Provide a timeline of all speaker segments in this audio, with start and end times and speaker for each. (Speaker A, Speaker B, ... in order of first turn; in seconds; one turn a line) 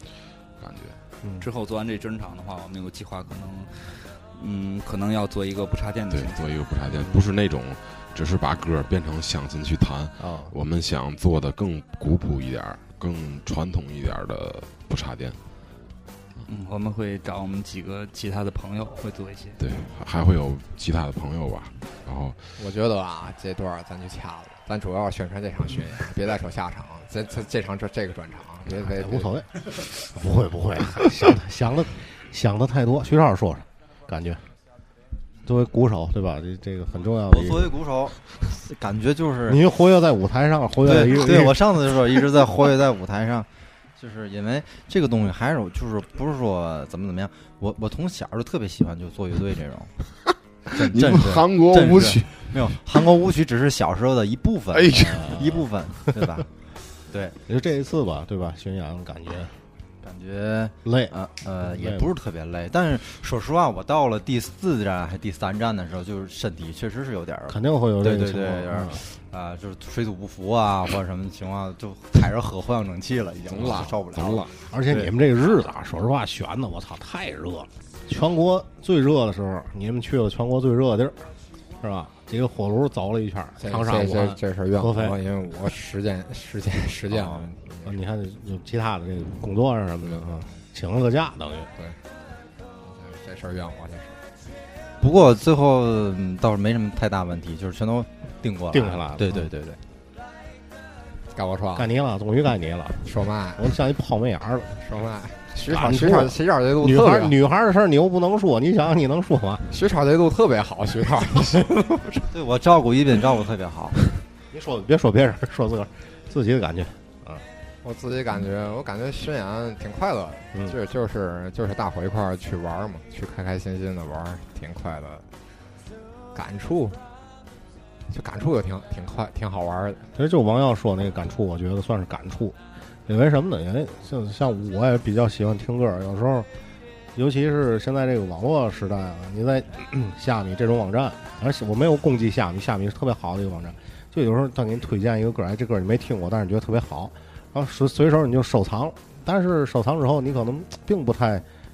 Speaker A: 0.6-1.0
Speaker B: 1.2-1.5
Speaker C: 1.4-6.5
Speaker A: 6.1-15.4
Speaker B: 10.2-10.5
Speaker C: 16.4-19.6
Speaker A: 19.6-22.5
Speaker D: 22.6-29.3
Speaker B: 28.7-34.4
Speaker B: 35.4-37.8
Speaker E: 37.2-39.6
Speaker B: 39.5-41.8
Speaker E: 40.8-49.9
Speaker E: 50.7-56.5
Speaker A: 50.7-52.8
Speaker A: 54.7-55.5
Speaker E: 57.1-57.4
Speaker B: 57.5-59.5
Speaker E: 60.0-75.1
Speaker B: 60.8-62.1
Speaker B: 67.5-69.0
Speaker A: 73.5-74.5
Speaker B: 74.7-81.3
Speaker B: 81.8-85.2
Speaker D: 83.6-87.9
Speaker B: 87.8-91.7
Speaker D: 90.0-90.5
Speaker D: 92.8-94.2
Speaker E: 95.0-99.8
Speaker B: 98.7-99.5
Speaker D: 101.3-101.9
Speaker B: 101.8-104.8
Speaker D: 103.0-103.7
Speaker D: 104.8-107.3
Speaker B: 105.5-109.7
Speaker D: 109.7-112.2
Speaker E: 112.3-114.0
Speaker B: 114.5-117.4
Speaker D: 117.8-125.3
Speaker D: 126.3-127.0
Speaker D: 128.1-130.0
Speaker B: 130.1-136.5
Speaker B: 137.1-151.4